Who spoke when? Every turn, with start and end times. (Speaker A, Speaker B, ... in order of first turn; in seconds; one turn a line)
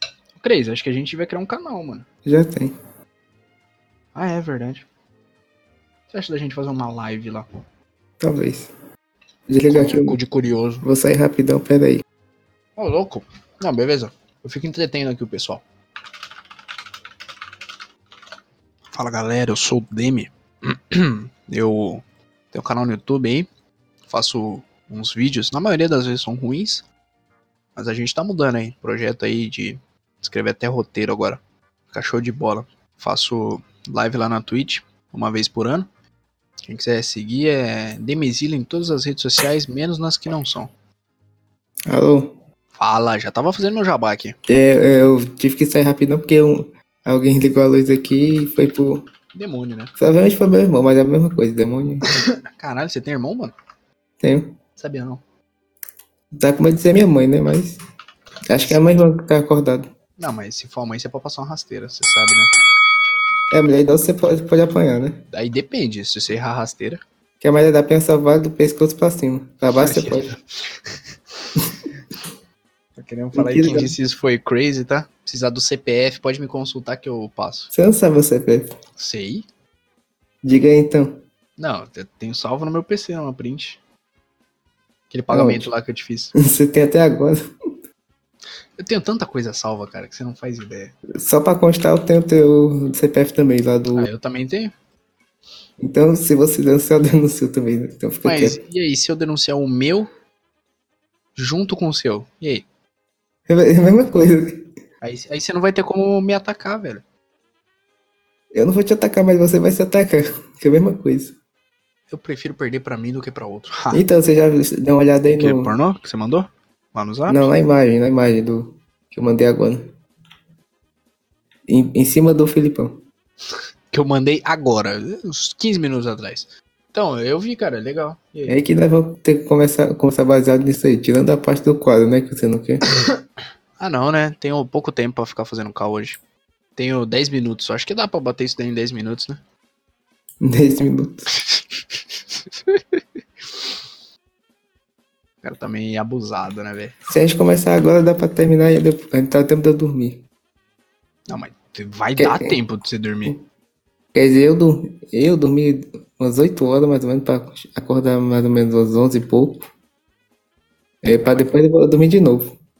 Speaker A: 0.3-2.1
Speaker B: 2.2-2.7
Speaker A: 4.1-4.8
Speaker A: 6.1-7.5
Speaker B: 8.2-8.7
Speaker B: 9.5-10.2
Speaker A: 9.7-10.8
Speaker B: 10.8-12.0
Speaker A: 12.8-15.6
Speaker A: 18.9-23.5
Speaker A: 24.1-26.8
Speaker A: 27.8-35.9
Speaker A: 36.6-40.7
Speaker B: 41.9-42.4
Speaker A: 42.7-44.4
Speaker B: 44.5-49.0
Speaker A: 49.3-49.9
Speaker B: 50.0-52.1
Speaker A: 52.5-53.5
Speaker B: 54.2-54.6
Speaker A: 54.8-55.2
Speaker B: 56.3-57.8
Speaker B: 58.5-59.9
Speaker A: 58.6-58.9
Speaker A: 60.2-62.5
Speaker B: 63.5-65.2
Speaker A: 65.3-67.0
Speaker B: 67.4-70.3
Speaker A: 69.8-70.4
Speaker A: 73.0-77.7
Speaker B: 73.2-73.9
Speaker B: 77.7-78.8
Speaker A: 79.0-79.5
Speaker B: 80.4-81.2
Speaker A: 81.6-83.8
Speaker A: 85.1-86.3
Speaker B: 85.3-85.7
Speaker B: 86.3-87.5
Speaker A: 88.8-91.0
Speaker B: 91.1-94.1
Speaker A: 93.9-94.7
Speaker B: 95.8-98.6
Speaker A: 98.2-100.1
Speaker A: 101.3-102.7
Speaker B: 103.5-104.7
Speaker A: 105.0-107.0
Speaker B: 108.5-111.3
Speaker A: 112.1-114.0
Speaker B: 113.9-115.7
Speaker A: 115.3-117.5
Speaker B: 117.3-119.9
Speaker B: 121.7-123.0
Speaker A: 123.9-128.6
Speaker B: 128.5-132.8
Speaker A: 133.8-136.2
Speaker A: 136.8-139.4
Speaker B: 140.4-141.3
Speaker A: 142.7-143.0
Speaker A: 145.4-146.9
Speaker B: 147.1-150.2
Speaker A: 151.3-153.3
Speaker B: 152.2-152.6
Speaker B: 154.1-159.7
Speaker B: 161.0-162.6
Speaker A: 161.1-161.4